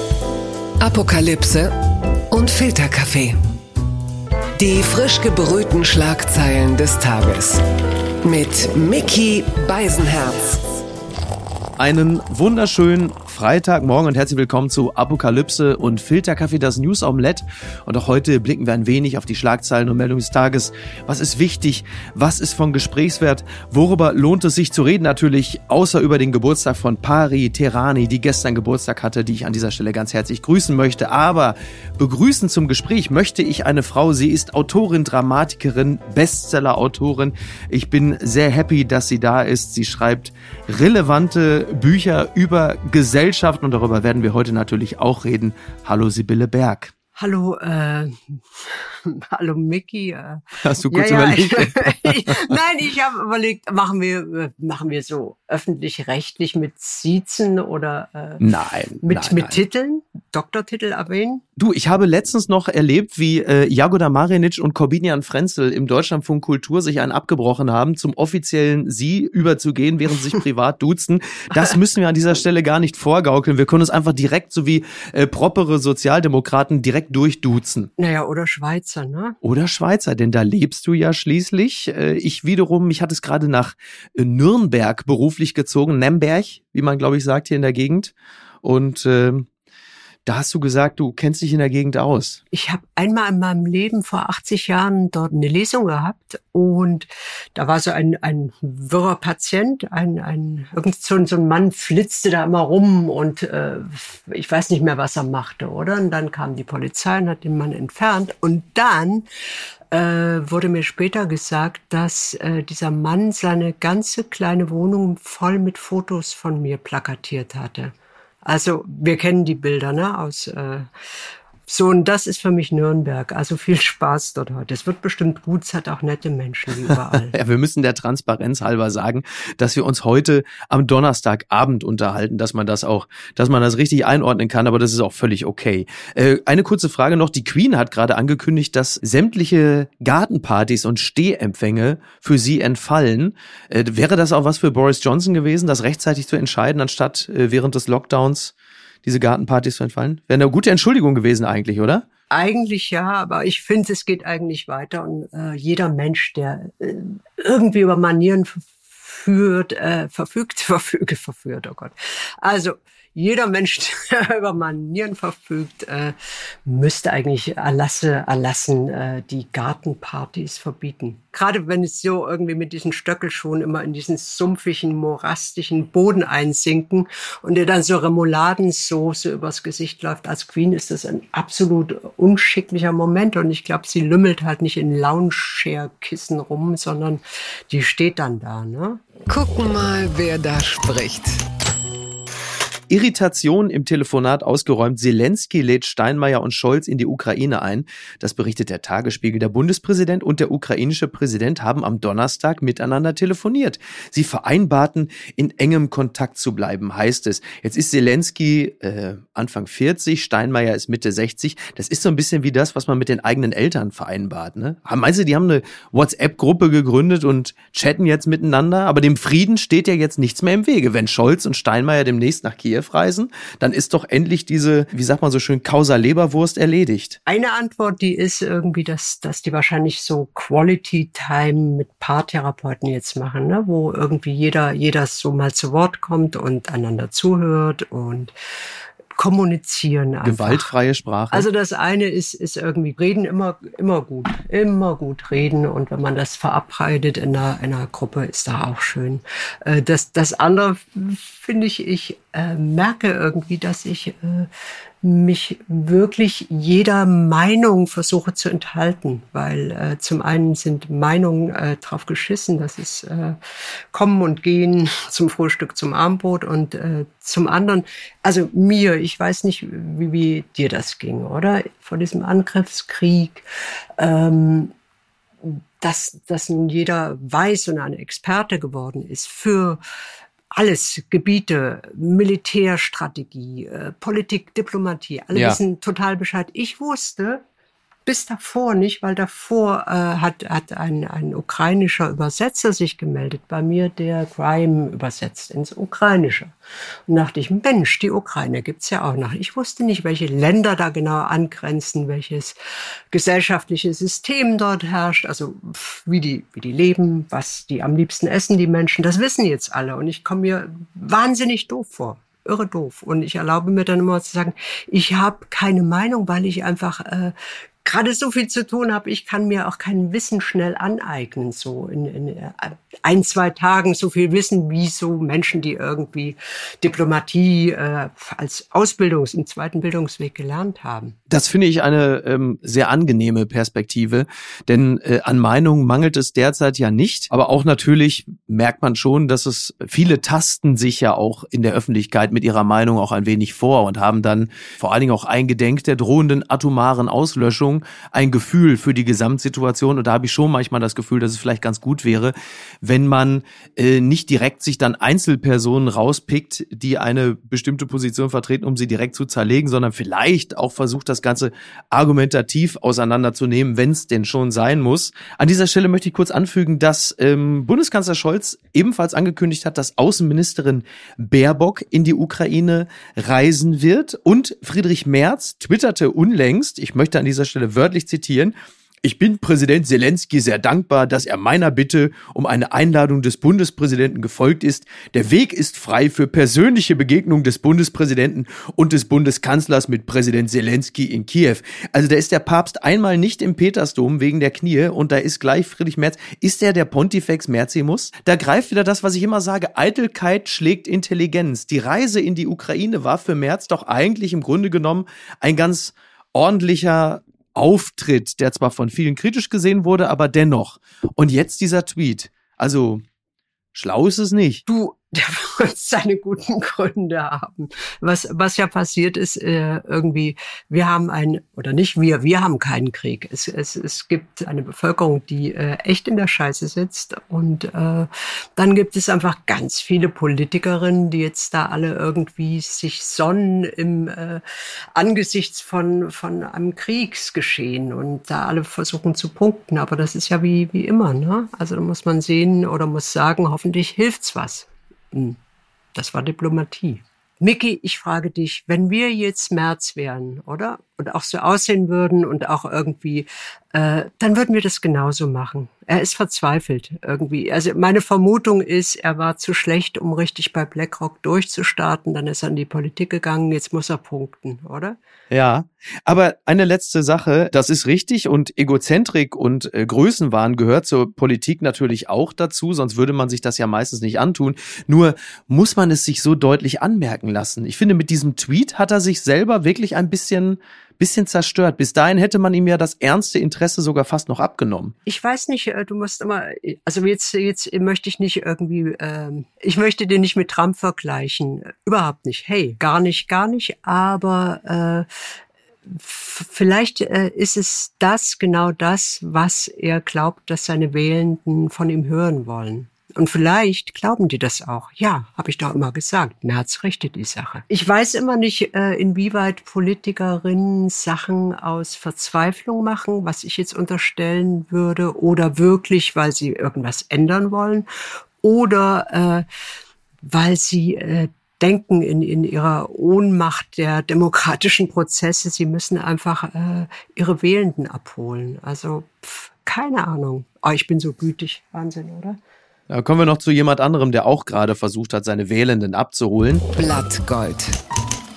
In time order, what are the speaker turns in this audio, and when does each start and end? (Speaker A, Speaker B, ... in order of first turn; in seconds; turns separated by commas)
Speaker A: 0.8-1.7, Speaker A: 2.3-3.4, Speaker A: 4.6-7.6, Speaker A: 8.2-10.6, Speaker B: 11.8-46.9, Speaker C: 47.2-58.5, Speaker B: 50.6-52.6, Speaker B: 58.4-59.6, Speaker C: 59.0-61.4, Speaker B: 61.6-77.9, Speaker C: 78.0-79.4, Speaker B: 79.4-89.5, Speaker B: 90.3-92.4, Speaker C: 92.5-109.3, Speaker C: 109.9-117.9, Speaker C: 118.5-120.9, Speaker C: 121.7-127.3, Speaker B: 127.2-148.5, Speaker B: 149.1-152.1, Speaker C: 152.3-189.0, Speaker A: 189.3-191.4, Speaker B: 192.9-227.2, Speaker C: 227.3-238.3, Speaker C: 239.2-240.7, Speaker B: 240.2-241.5, Speaker C: 241.3-254.5, Speaker C: 255.0-273.4, Speaker C: 274.0-274.7, Speaker C: 275.4-279.8, Speaker C: 280.5-287.4, Speaker B: 285.3-285.6, Speaker C: 288.1-296.5, Speaker C: 297.1-302.6, Speaker C: 303.1-331.2, Speaker B: 331.3-413.0, Speaker B: 413.7-414.6, Speaker C: 414.7-434.4, Speaker C: 434.9-445.4, Speaker C: 445.9-465.0, Speaker B: 465.3-484.9, Speaker C: 485.1-495.1, Speaker C: 495.9-517.9, Speaker C: 518.4-519.5, Speaker C: 520.2-532.4, Speaker B: 532.9-536.6, Speaker A: 536.8-537.8